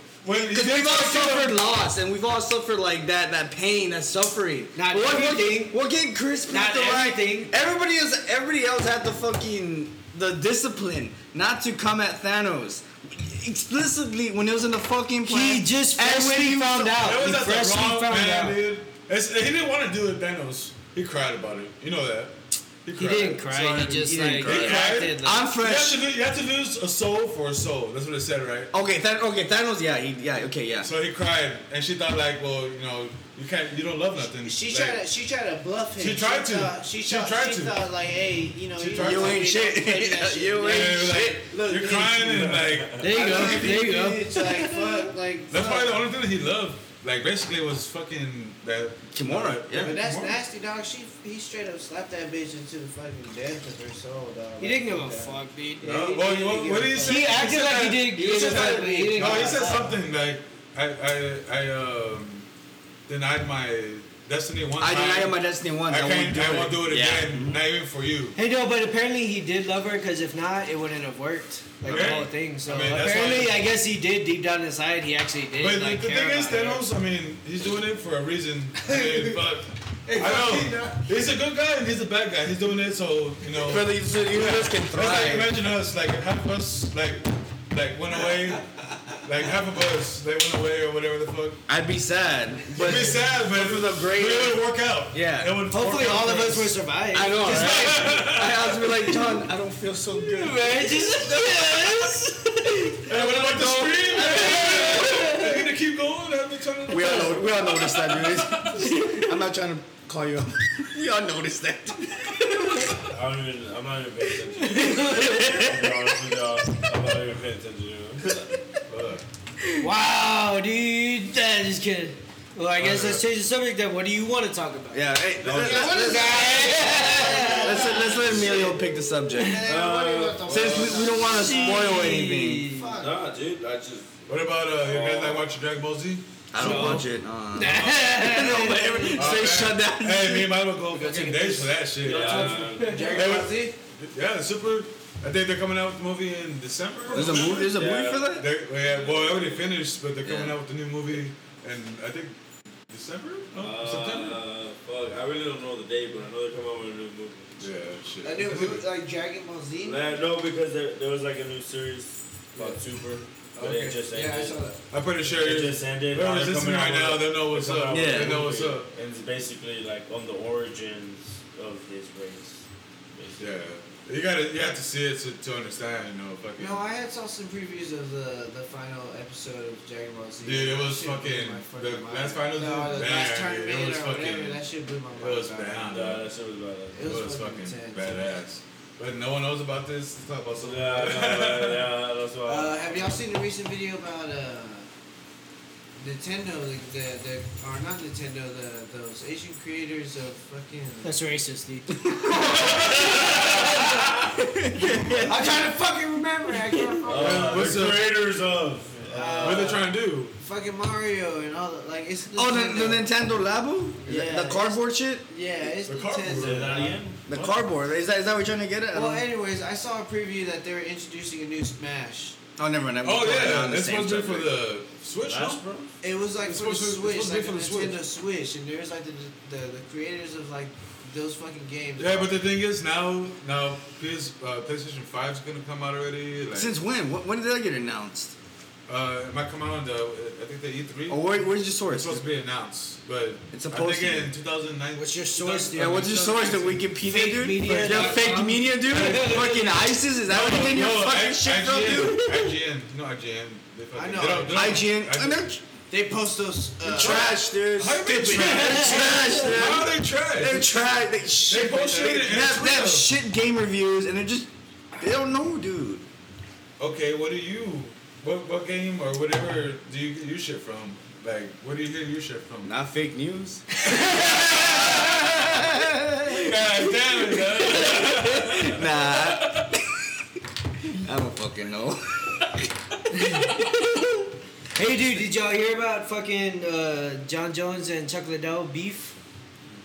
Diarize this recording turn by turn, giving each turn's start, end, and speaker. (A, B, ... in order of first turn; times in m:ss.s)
0:00.2-0:01.6 A
0:00.4-0:17.2 B
0:04.8-0:05.8 C
0:06.5-0:07.5 C
0:15.2-0:18.6 C
0:17.0-0:28.7 A
0:23.0-0:25.5 C
0:23.8-0:26.0 B
0:28.7-0:30.9 B
0:30.8-0:35.0 A
0:34.4-0:46.0 D
0:36.0-0:37.8 A
0:38.8-0:39.5 A
0:39.0-0:41.5 B
0:40.6-0:43.6 A
0:42.3-0:43.0 E
0:43.0-0:44.9 C
0:43.2-0:44.1 B
0:45.5-0:50.4 A
0:49.1-0:50.0 B
0:49.8-0:57.4 D
0:54.6-0:56.2 C
0:55.8-1:02.5 A
0:56.9-0:59.9 C
0:58.2-0:59.8 D
1:03.1-1:08.4 A
1:04.8-1:07.6 B
1:08.4-1:16.8 C
1:11.8-1:13.6 A
1:15.6-1:31.6 A
1:18.9-1:19.3 D
1:20.1-1:21.0 D
1:23.6-1:25.5 B
1:31.7-1:35.6 B
1:32.7-1:36.8 A
1:35.7-1:38.1 C
1:37.1-1:41.8 B
1:37.3-1:39.1 A
1:40.1-1:43.0 C
1:43.1-1:45.3 B
1:43.1-1:48.9 A
1:44.1-1:45.7 C
1:46.9-1:52.9 B
1:53.1-1:58.4 E
1:54.7-1:55.5 C
1:55.0-1:55.9 B
1:58.9-1:59.2 A
1:59.8-2:05.0 C
2:02.8-2:03.2 A
2:04.9-2:09.7 B
2:05.4-2:08.6 E
2:05.4-2:08.7 D
2:05.8-2:08.0 C
2:09.4-2:12.1 D
2:09.6-2:11.4 E
2:10.4-2:12.7 B
2:11.3-2:13.0 C
2:12.7-2:13.2 D
2:13.0-2:15.4 E
2:14.3-2:17.0 A
2:16.5-2:20.6 B
2:16.6-2:19.4 C
2:19.1-2:32.4 A
2:20.9-2:23.7 D
2:22.0-2:23.5 E
2:22.1-2:23.3 C
2:27.1-2:28.5 B
2:27.2-2:29.6 E
2:30.2-2:30.6 B
2:32.9-2:34.4 A
2:33.6-2:37.6 E
2:37.6-2:38.8 A
2:38.2-2:40.1 D
2:39.8-2:44.6 E
2:42.6-2:42.8 D
2:43.6-2:44.8 D
2:44.9-2:48.9 A
2:45.2-2:53.4 E
2:47.9-2:48.4 B
2:53.4-2:56.8 A
2:56.6-3:05.9 D
3:00.4-3:04.6 A
3:05.1-3:06.3 A
3:05.9-3:07.0 E
3:06.9-3:08.3 D
3:07.0-3:11.9 A
3:10.6-3:13.2 E
3:12.4-3:14.9 D
3:16.0-3:21.1 D
3:21.0-3:23.7 C
3:22.1-3:22.9 B
3:22.4-3:23.9 D
3:22.6-3:24.1 E
3:24.3-3:25.5 B
3:25.2-3:27.8 D
3:27.0-3:29.8 E
3:27.1-3:28.1 A
3:29.1-3:33.1 D
3:29.4-3:30.4 A
3:32.3-3:35.2 B
3:34.0-3:37.0 D
3:35.8-3:36.7 A
3:36.3-3:37.5 E
3:37.3-3:39.2 B
3:38.9-3:42.4 D
3:42.6-3:44.5 B
3:43.0-3:45.6 A
3:45.2-3:45.9 E
3:46.0-3:52.4 D
3:46.4-3:48.0 A
3:52.0-3:56.7 A
3:56.5-3:58.4 B
3:58.9-4:06.6 A
4:01.1-4:02.2 B
4:03.5-4:04.3 B
4:05.0-4:10.0 C
4:05.7-4:12.4 B
4:07.6-4:08.4 A
4:08.9-4:09.6 A
4:10.2-4:15.5 A
4:11.9-4:12.5 C
4:13.9-4:14.9 D
4:14.5-4:15.6 B
4:15.9-4:17.5 D
4:16.8-4:23.1 A
4:16.9-4:26.1 B
4:18.0-4:19.4 D
4:18.3-4:19.5 C
4:26.8-4:32.7 A
4:32.6-4:40.0 B
4:33.9-4:35.4 A
4:34.2-4:34.5 C
4:36.2-4:39.8 A
4:40.9-4:42.6 B
4:43.1-4:44.2 C
4:44.7-4:49.2 C